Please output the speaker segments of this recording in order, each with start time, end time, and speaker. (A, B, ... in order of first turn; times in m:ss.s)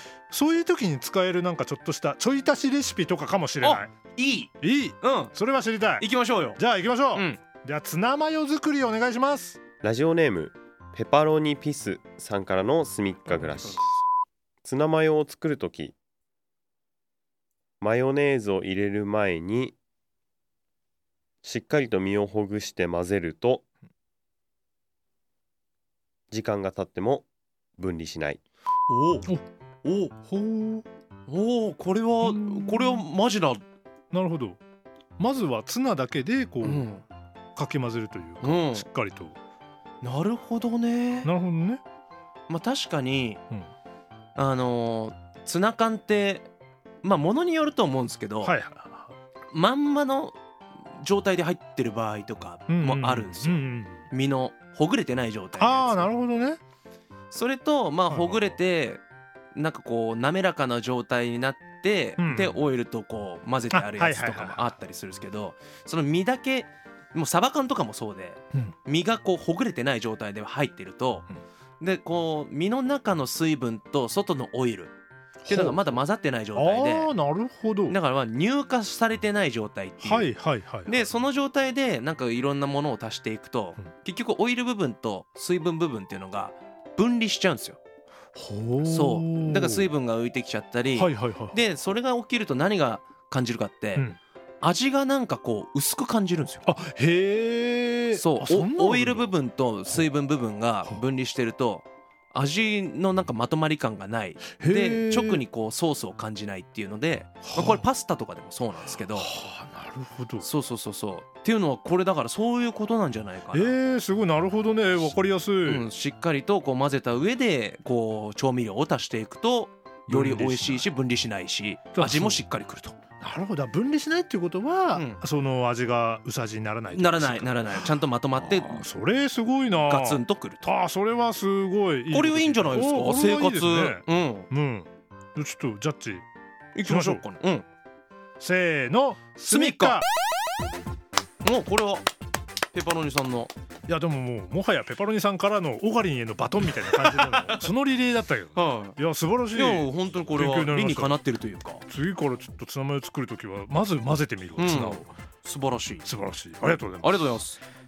0:00.3-0:03.9 A
0:03.6-0:05.3 B
0:04.6-0:09.6 A
0:06.0-0:06.6 B
0:07.1-0:07.4 B
0:09.8-0:13.8 C
0:13.5-0:13.8 A
0:14.6-0:16.0 C
0:17.8-0:19.8 C
0:21.4-0:23.6 C
0:26.3-0:27.3 C
0:27.8-0:28.4 C
0:28.9-0:29.3 B
0:29.8-0:30.1 B
0:30.3-0:30.8 A
0:31.3-0:33.6 B
0:32.2-0:33.1 A
0:34.1-0:34.6 A
0:35.2-0:36.9 A
0:36.6-0:37.0 B
0:37.6-0:39.4 A
0:38.4-0:38.8 B
0:40.0-0:41.3 B
0:41.2-0:41.8 A
0:42.5-0:43.4 B
0:44.4-0:46.5 B
0:47.0-0:48.5 B
0:48.4-0:49.1 A
0:49.5-0:50.4 B
0:51.0-0:56.1 B
0:52.7-0:54.0 A
0:55.6-0:56.6 A
0:57.3-0:59.0 B
0:58.1-0:58.6 A
0:59.5-1:11.2 B
1:02.2-1:02.6 A
1:03.7-1:04.6 A
1:11.8-1:14.9 B
1:15.4-1:16.0 A
1:15.5-1:17.2 B
1:16.5-1:18.0 A
1:17.9-1:27.8 B
1:20.0-1:21.1 A
1:28.3-1:29.9 A
1:28.8-1:34.0 B
1:30.9-1:31.6 A
1:34.6-1:36.6 B
1:36.6-1:39.3 A
1:38.1-1:49.3 B
1:44.6-1:45.4 A
1:47.4-1:47.8 A
1:49.1-1:50.4 A
1:50.4-1:53.8 B
1:53.5-1:55.9 A
1:55.6-2:03.0 B
2:00.1-2:00.8 A
2:01.9-2:02.4 A
2:03.2-2:16.2 A
2:04.9-2:05.2 B
2:06.9-2:08.8 B
2:09.9-2:10.6 B
2:12.1-2:14.5 B
2:16.7-2:17.6 B
2:16.8-2:17.2 A
2:18.4-2:20.0 A
2:19.5-2:20.0 B
2:21.4-2:22.1 B
2:22.7-2:23.5 B
2:23.9-2:31.2 A
2:27.3-2:27.7 B
2:28.5-2:29.0 B
2:29.5-2:31.8 B
2:31.8-2:35.1 A
2:34.6-2:36.0 B
2:36.0-2:37.2 A
2:36.8-2:37.6 B